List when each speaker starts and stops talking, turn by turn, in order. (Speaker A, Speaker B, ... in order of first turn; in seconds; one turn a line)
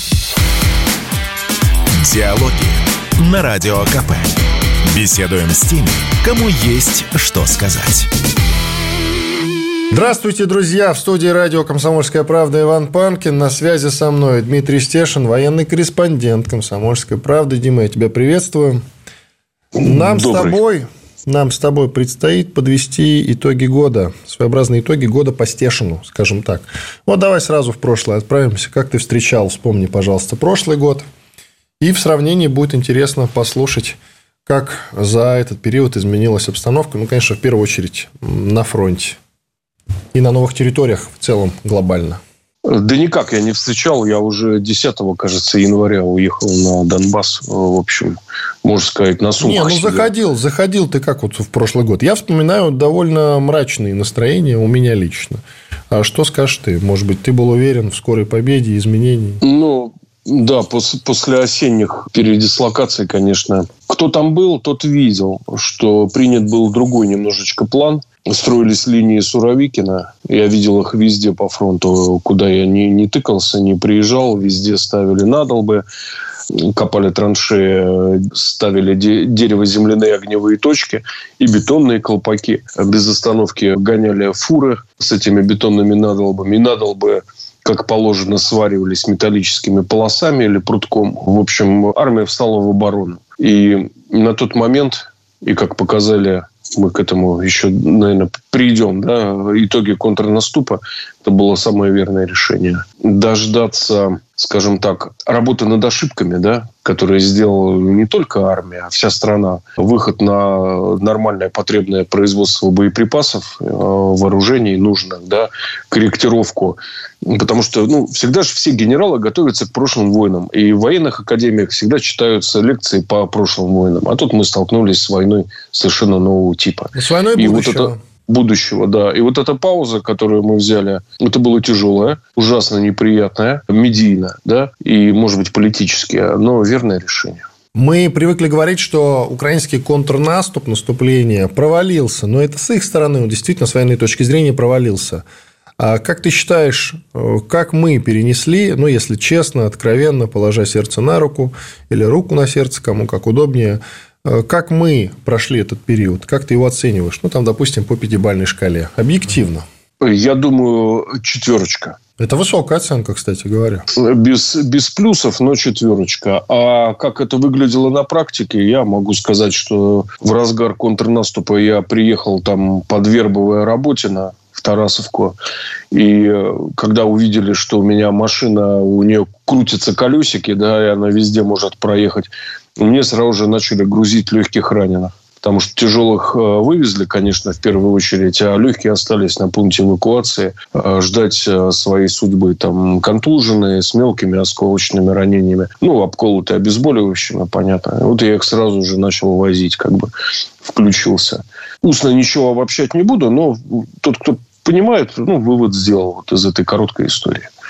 Speaker A: 1.9-8.1
Speaker B: 9.9-18.8
Speaker C: 19.8-20.6
Speaker B: 19.8-31.0
Speaker B: 31.8-39.2
Speaker B: 40.1-42.2
Speaker C: 42.6-50.1
Speaker B: 49.4-55.4
Speaker B: 55.9-59.4
Speaker C: 59.4-75.8
Speaker C: 76.5-137.4
Speaker B: 127.0-128.0
Speaker B: 137.8-145.2
Speaker B: 145.8-159.6
Speaker C: 160.0-162.0
Speaker B: 162.2-163.9
Speaker C: 163.9-175.4
Speaker C: 175.9-200.1
Speaker C: 200.6-207.5